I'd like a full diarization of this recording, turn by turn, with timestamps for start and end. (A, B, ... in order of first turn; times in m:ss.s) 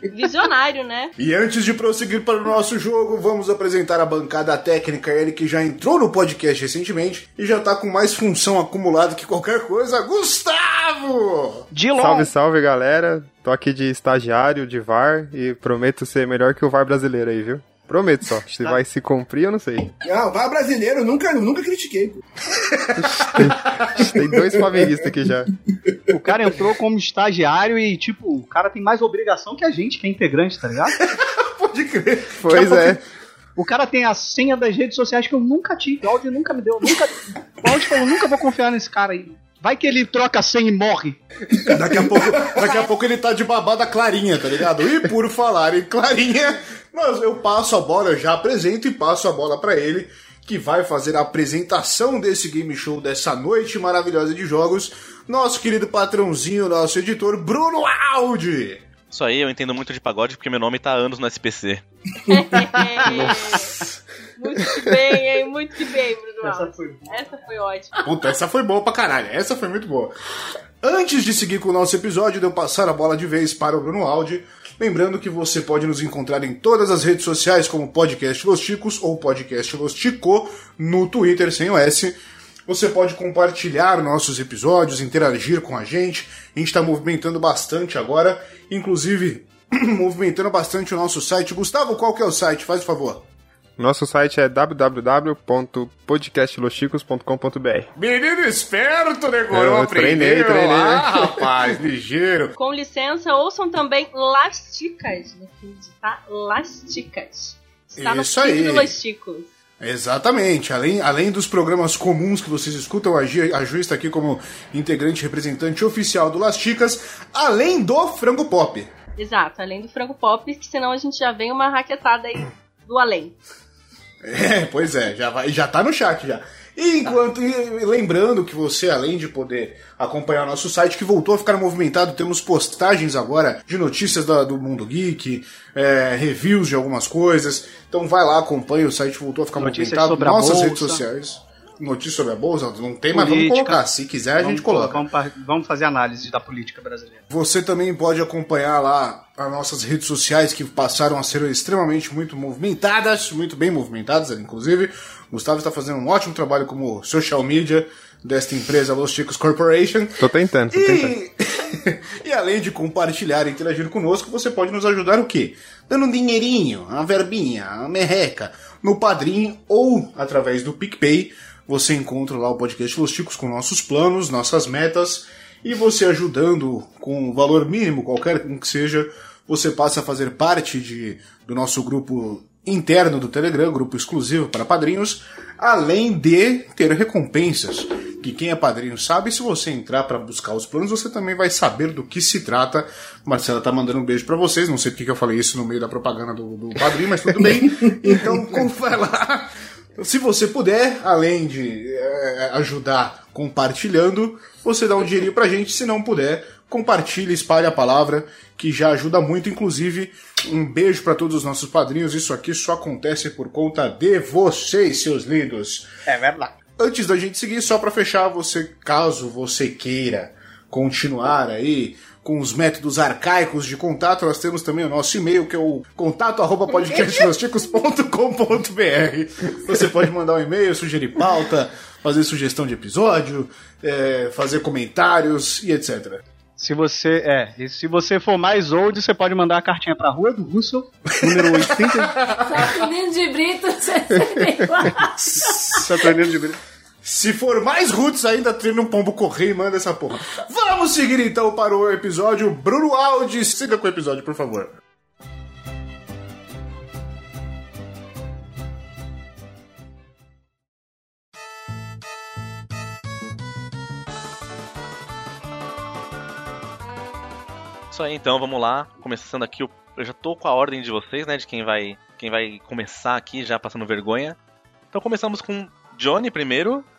0:00.1-0:01.1 A
0:01.2-0:11.7 B
0:11.7-0:12.3 C
0:12.0-0:19.9 D
0:20.0-0:22.2 E
0:22.6-0:24.0 B
0:23.0-0:25.5 D
0:24.2-0:25.0 E
0:26.1-0:31.0 C
0:31.0-0:33.0 B
0:32.4-0:33.0 D
0:33.6-0:41.2 C
0:41.6-0:42.9 E
0:41.7-0:58.8 B
0:59.1-1:01.8 F
1:02.3-1:03.8 A
1:04.4-1:08.0 A
1:06.4-1:07.2 C
1:08.0-1:10.1 B
1:10.8-1:33.3 B
1:33.8-1:37.9 D
1:38.0-1:42.6 B
1:39.5-1:41.7 D
1:42.6-1:49.5 A
1:48.0-1:48.9 B
1:49.8-1:58.9 B
1:59.2-2:03.4 A
2:04.2-2:25.0 B
2:19.6-2:21.0 C
2:23.1-2:23.8 C
2:24.4-2:27.2 C
2:27.3-3:35.9 B
2:40.2-2:41.2 D
3:17.4-3:18.7 E
3:36.1-3:36.6 C
3:36.8-3:56.2 B
3:46.8-3:47.3 A
3:56.6-4:02.2 C
4:01.1-4:02.8 B
4:02.5-4:05.8 G
4:05.3-4:05.8 B
4:05.5-4:06.6 C
4:07.0-4:14.8 B
4:27.9-4:34.4 F
4:34.9-4:36.9 F